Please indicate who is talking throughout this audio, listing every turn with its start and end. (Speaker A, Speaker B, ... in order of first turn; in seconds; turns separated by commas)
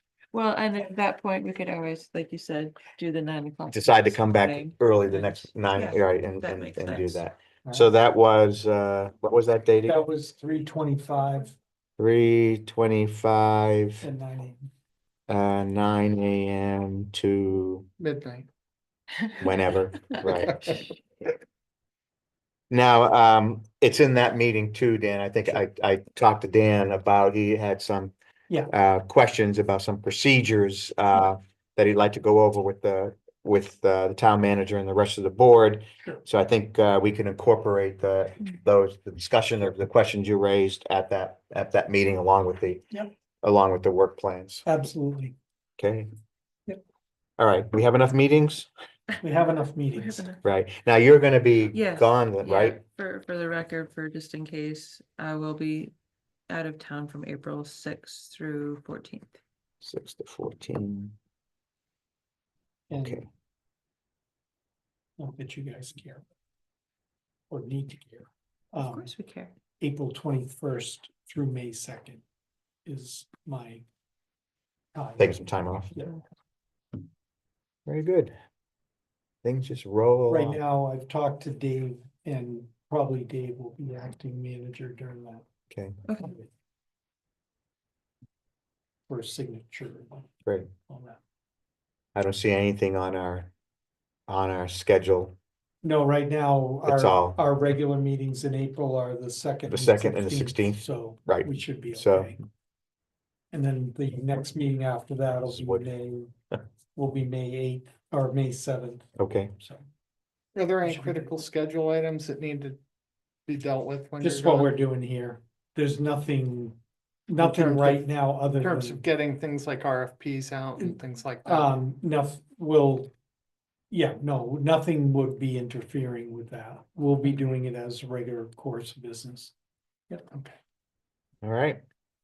Speaker A: 0.3-7.2, Speaker B: 3.7-10.0, Speaker C: 7.6-7.9, Speaker C: 9.8-11.5, Speaker B: 12.0-14.1, Speaker C: 14.0-14.7, Speaker B: 15.3-17.9, Speaker D: 18.0-18.5, Speaker B: 19.4-20.8, Speaker B: 22.7-28.1, Speaker B: 28.7-42.8, Speaker B: 43.4-44.6, Speaker C: 44.6-45.4, Speaker B: 45.8-46.1, Speaker B: 47.4-48.7, Speaker C: 49.2-50.3, Speaker A: 49.9-50.4, Speaker B: 50.4-52.8, Speaker A: 51.7-55.9, Speaker A: 56.5-59.4, Speaker B: 59.8-61.1, Speaker C: 62.9-63.2, Speaker B: 63.0-63.2, Speaker C: 65.2-66.2, Speaker C: 67.5-69.1, Speaker A: 68.8-69.5, Speaker C: 69.8-72.2, Speaker C: 72.8-73.8, Speaker C: 74.9-75.4, Speaker B: 75.2-75.9, Speaker B: 77.9-78.3, Speaker B: 79.4-80.6, Speaker C: 80.3-85.4, Speaker B: 85.7-86.0, Speaker C: 86.2-86.5, Speaker C: 89.1-90.3, Speaker C: 90.9-91.2, Speaker B: 92.1-93.5, Speaker B: 94.3-95.3, Speaker C: 95.8-102.4, Speaker B: 96.8-97.4, Speaker B: 99.7-102.3, Speaker C: 103.5-106.3, Speaker B: 105.5-105.8, Speaker C: 107.0-109.8, Speaker B: 109.2-109.5, Speaker D: 110.5-112.8, Speaker C: 110.8-111.3, Speaker D: 113.5-114.7, Speaker C: 114.2-119.0, Speaker D: 117.4-121.7, Speaker C: 120.8-123.1, Speaker C: 123.9-129.5, Speaker B: 131.4-131.8